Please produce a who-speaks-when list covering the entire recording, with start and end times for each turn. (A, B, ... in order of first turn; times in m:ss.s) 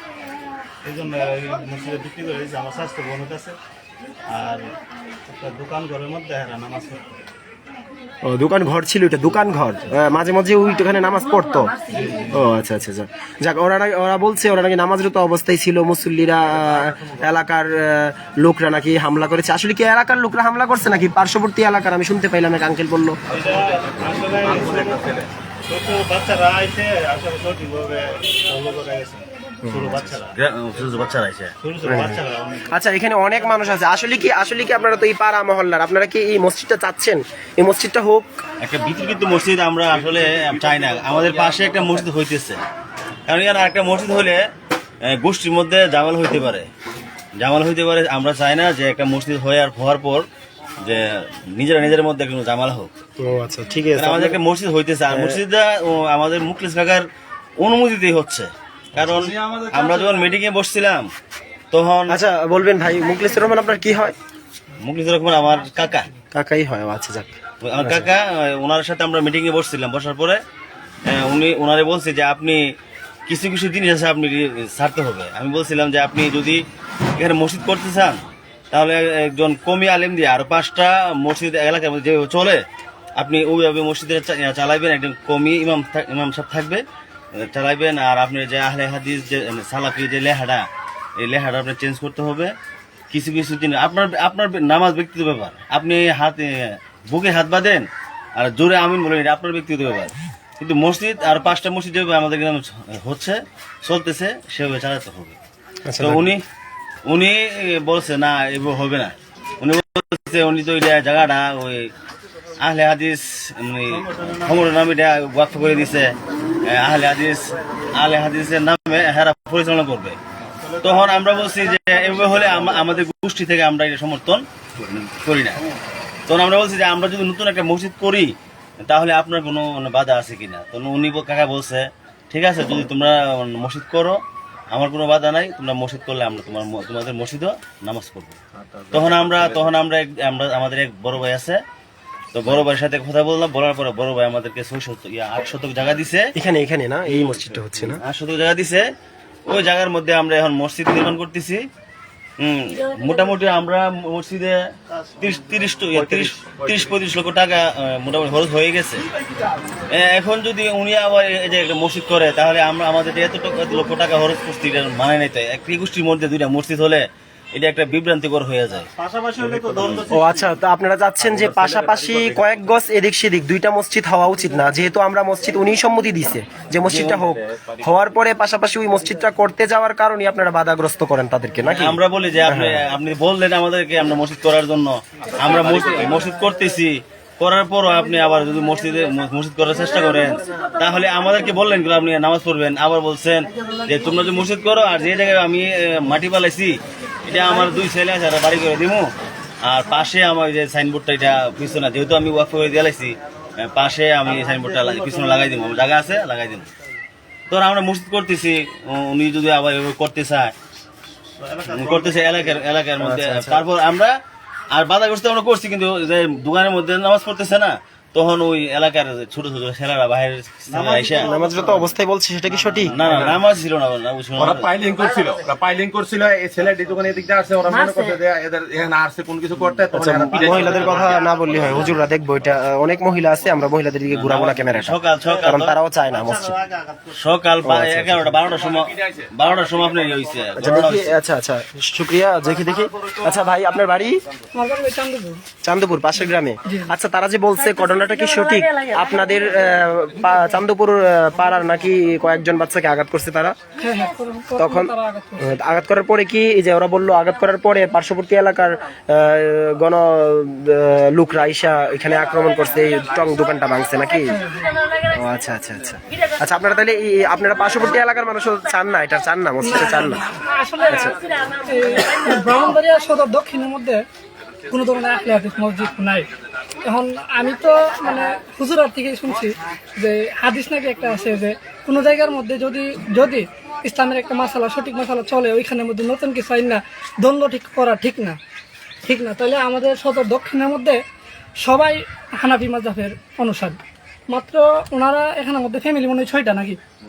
0:00.8-0:03.6 A
0:04.3-0:04.7 A
0:05.3-0:07.1 A
0:08.2-0:11.7 B
0:11.9-0:12.6 A
0:12.3-0:23.2 B
0:23.3-0:25.1 A
0:24.4-0:25.3 C
0:25.7-0:30.3 A
0:29.6-0:29.9 B
0:30.3-0:31.5 D
0:31.6-0:32.8 A
0:31.8-0:38.3 B
0:38.6-0:42.6 D
0:43.3-0:44.4 D
0:45.1-0:46.7 D
0:47.4-0:50.2 D
0:50.8-0:52.9 D
0:53.2-0:54.4 B
0:54.0-0:57.0 D
0:55.1-0:55.4 B
0:57.6-1:01.1 D
1:01.7-1:02.2 D
1:02.1-1:04.1 B
1:04.8-1:06.1 D
1:06.3-1:08.1 B
1:07.6-1:10.4 D
1:11.1-1:12.6 D
1:13.3-1:16.6 D
1:17.2-1:22.6 D
1:23.2-1:26.8 D
1:27.4-1:30.6 D
1:31.2-1:32.5 D
1:33.1-1:37.8 D
1:38.4-1:45.4 D
1:45.9-1:46.3 B
1:46.0-1:46.4 D
1:47.0-1:51.9 D
1:52.6-1:56.2 D
1:56.7-2:00.2 D
2:00.6-2:03.0 A
2:00.8-2:05.6 D
2:06.3-2:14.2 D
2:14.7-2:18.4 D
2:18.9-2:21.6 D
2:22.3-2:26.3 D
2:26.4-2:28.0 B
2:27.1-2:28.8 D
2:29.5-2:31.6 D
2:32.4-2:34.6 D
2:35.2-2:39.1 D
2:35.9-2:36.3 C
2:39.9-2:48.8 D
2:49.0-2:50.6 A
2:49.4-2:50.0 D
2:50.1-3:02.9 B
2:56.8-2:57.4 D
3:01.7-3:19.1 D
3:19.6-3:26.7 D
3:24.6-3:25.6 A
3:27.5-3:30.5 D
3:31.4-3:32.5 A
3:31.7-3:34.1 D
3:33.0-3:33.6 B
3:34.7-3:41.3 D
3:40.7-3:41.9 A
3:41.2-3:43.0 B
3:42.5-3:42.8 A
3:42.9-3:44.7 D
3:44.4-3:51.2 C
3:50.0-3:56.6 B
3:51.6-3:52.0 D
3:54.1-3:55.7 D
3:56.0-3:57.2 A
3:57.2-4:01.2 D
3:57.6-3:58.4 B
3:58.8-3:59.3 C
4:00.6-4:04.2 B
4:04.5-4:05.4 E
4:05.6-4:13.5 B
4:13.8-4:15.5 E
4:14.6-4:24.3 B
4:24.3-4:24.6 E
4:25.1-4:30.2 B
4:29.6-4:34.0 E
4:30.9-4:31.1 B
4:34.7-4:36.3 E
4:36.8-4:48.4 E
4:49.0-4:51.0 E
4:51.6-4:56.8 E